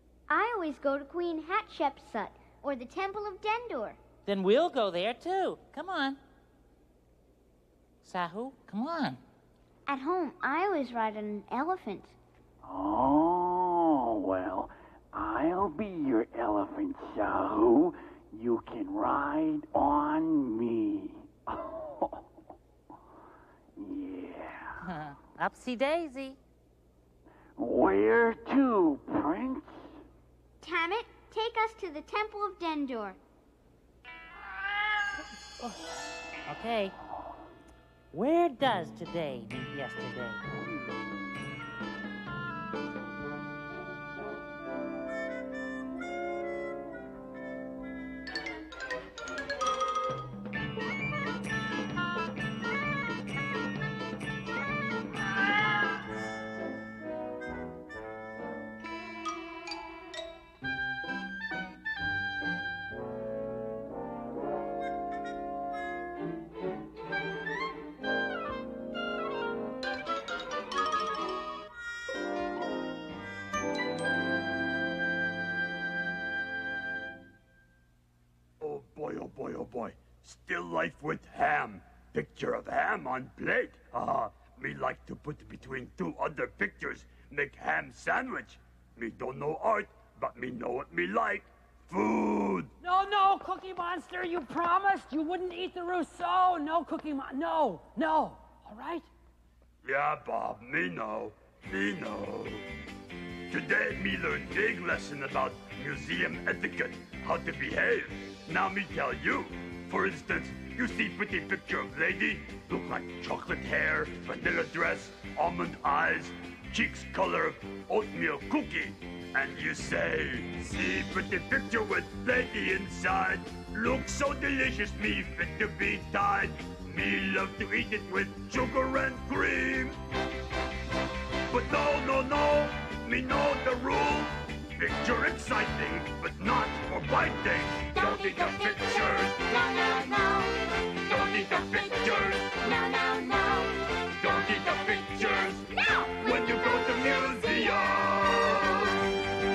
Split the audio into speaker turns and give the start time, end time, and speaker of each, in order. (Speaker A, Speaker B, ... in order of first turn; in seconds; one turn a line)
Speaker A: 0.3-4.0
Speaker B: 4.2-6.2
Speaker B: 8.0-9.2
Speaker A: 9.9-12.1
Speaker C: 12.6-22.2
Speaker C: 23.8-24.8
Speaker B: 24.8-26.4
Speaker C: 27.6-29.9
Speaker A: 30.6-33.2
Speaker B: 35.6-35.9
Speaker B: 36.5-36.9
Speaker B: 38.1-40.4
Speaker D: 78.6-92.7
Speaker E: 92.8-99.1
Speaker D: 99.8-102.6
Speaker D: 103.5-130.0
Speaker D: 131.5-139.7
Speaker A: 139.8-140.4
Speaker D: 141.0-142.8
Speaker A: 142.9-143.7
Speaker D: 144.2-149.0